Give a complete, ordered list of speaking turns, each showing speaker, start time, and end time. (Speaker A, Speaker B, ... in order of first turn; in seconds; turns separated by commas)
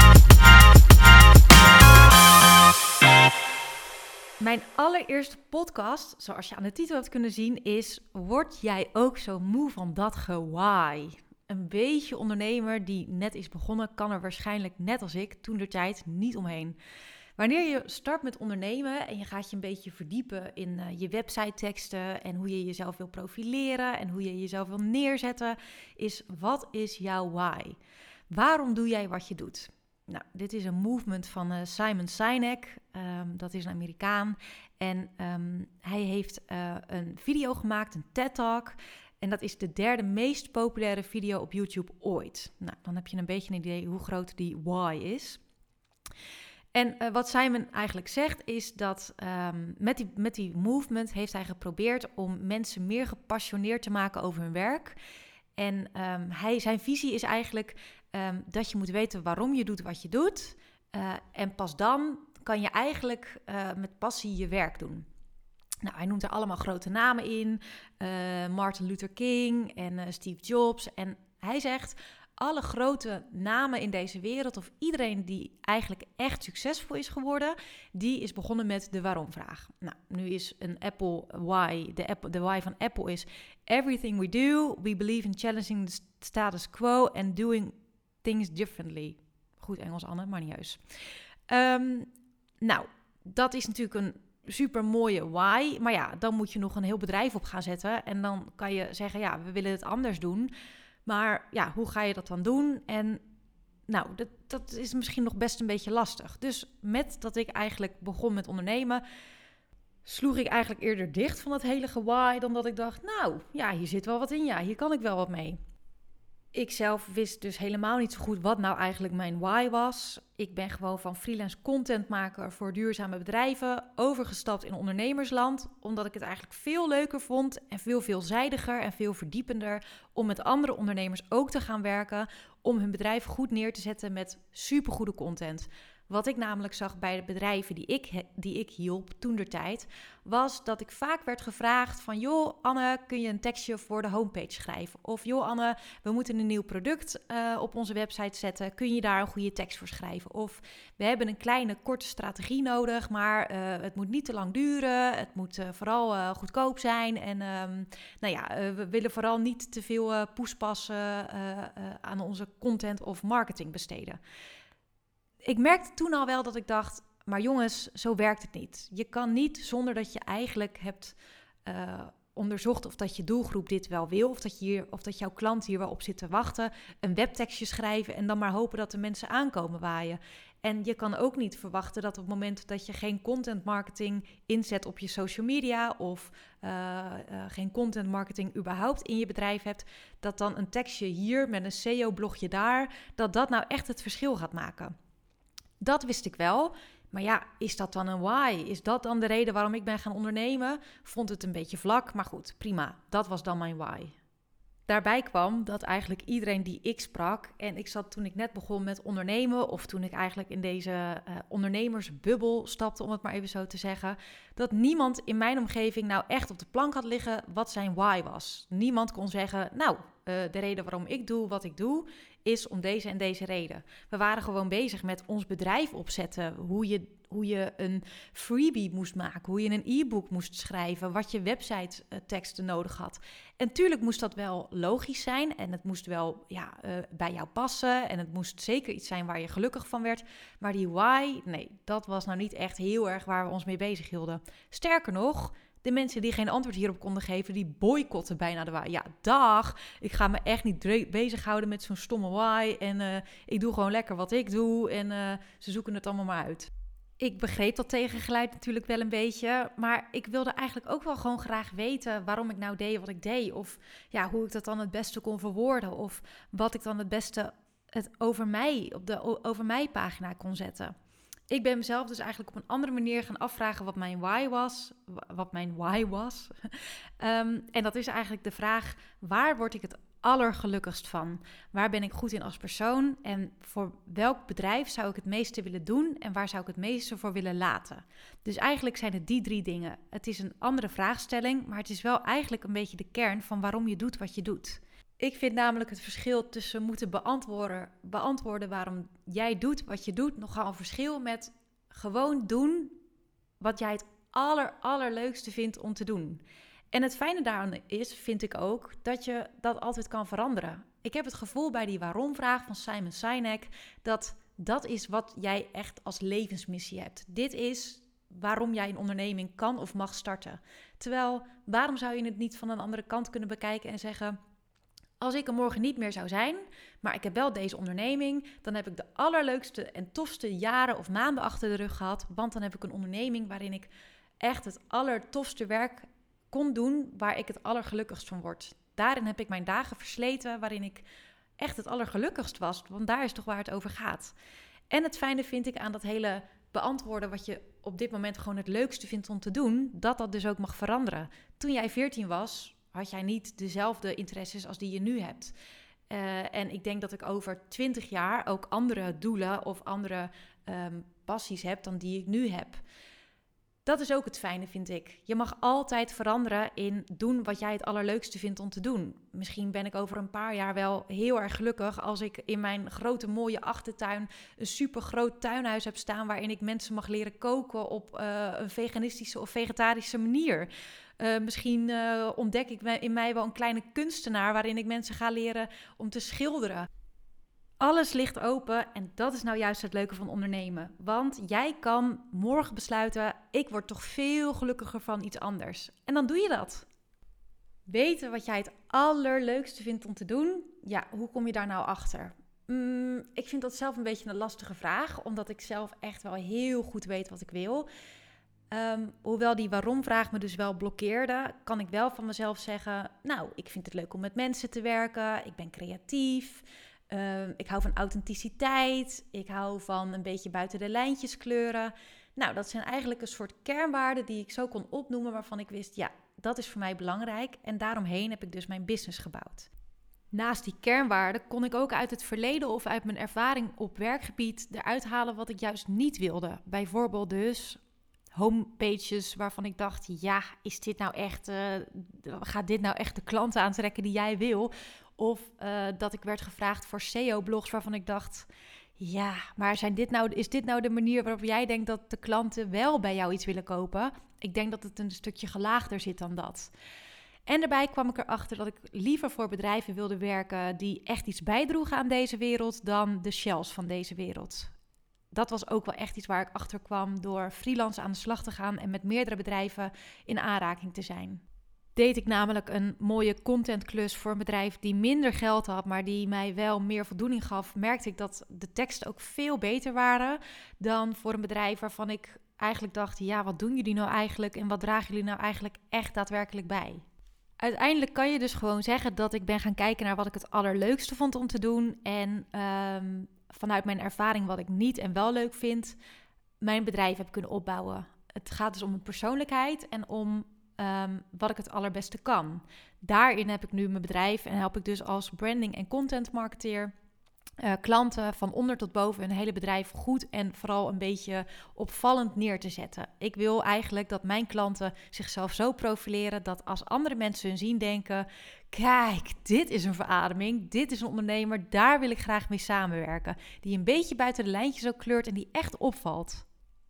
Speaker A: 4.4-16.8, Speaker A: 17.4-27.8, Speaker A: 28.3-45.4, Speaker A: 46.7-55.0, Speaker A: 55.6-65.0, Speaker A: 65.8-90.8, Speaker A: 91.5-92.1, Speaker A: 92.6-100.5, Speaker A: 101.0-103.2, Speaker A: 103.9-109.0, Speaker A: 110.0-115.6, Speaker A: 116.5-164.2, Speaker A: 165.4-194.9, Speaker A: 195.8-204.1, Speaker A: 204.9-270.9, Speaker A: 271.5-302.9, Speaker A: 303.6-324.4, Speaker A: 325.2-341.0, Speaker A: 341.6-344.3, Speaker A: 344.9-355.5, Speaker A: 356.1-362.8, Speaker A: 363.8-386.9, Speaker A: 387.8-396.9, Speaker A: 397.9-407.9, Speaker A: 408.7-429.7, Speaker A: 430.3-437.8, Speaker A: 438.3-456.7, Speaker A: 457.5-464.7, Speaker A: 465.3-471.4, Speaker A: 471.9-487.0, Speaker A: 487.6-496.0, Speaker A: 496.6-506.9, Speaker A: 507.6-526.5